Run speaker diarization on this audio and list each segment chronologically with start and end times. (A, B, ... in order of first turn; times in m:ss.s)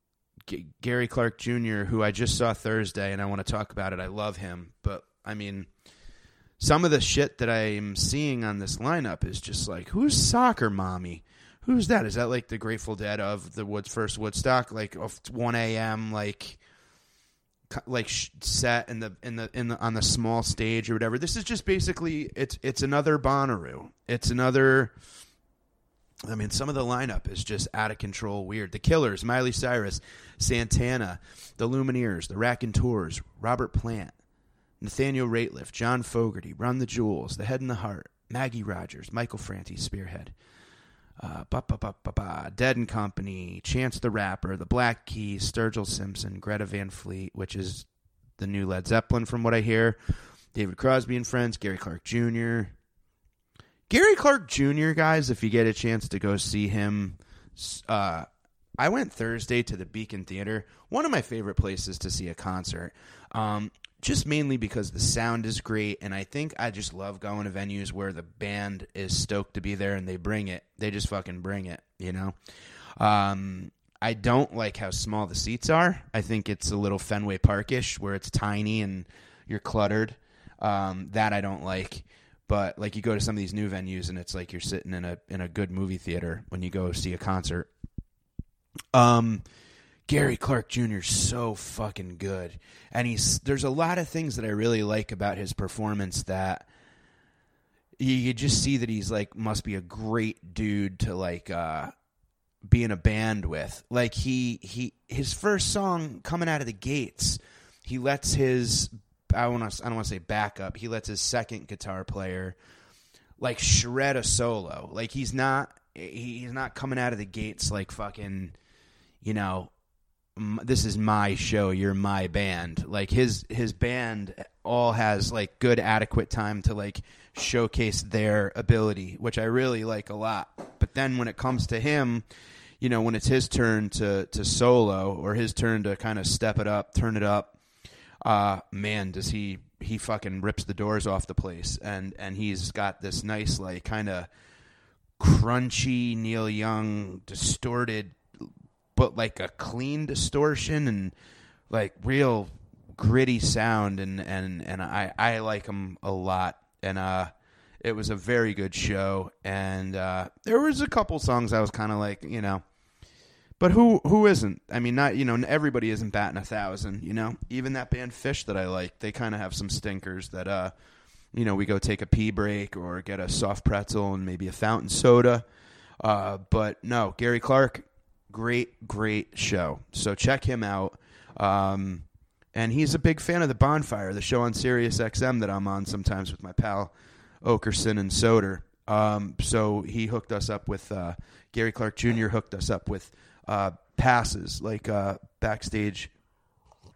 0:00.5-0:05.7 A
0:06.6-0:16.6 A
0:17.7-0:24.9 A
0:26.2-0:34.1 A
0:34.8-0:40.3 A
0:41.2-0:47.8 A
0:48.4-0:50.0 A
0:50.5-0:52.7 A
0:53.9-0:58.3 A
0:58.8-1:12.3 A
1:13.0-1:27.7 A
1:28.9-1:29.4 A
1:30.1-1:36.7 A
1:38.0-1:41.9 A
1:42.6-1:52.6 A
1:53.4-1:58.5 A
1:59.2-1:59.7 A
2:00.4-2:12.2 A
2:12.8-2:17.6 A
2:18.2-2:24.3 A
2:25.2-2:28.2 A
2:29.0-2:31.1 A
2:31.7-2:42.6 A
2:43.6-2:50.7 A
2:51.3-2:55.4 A
2:56.0-3:06.9 A
3:07.4-3:16.1 A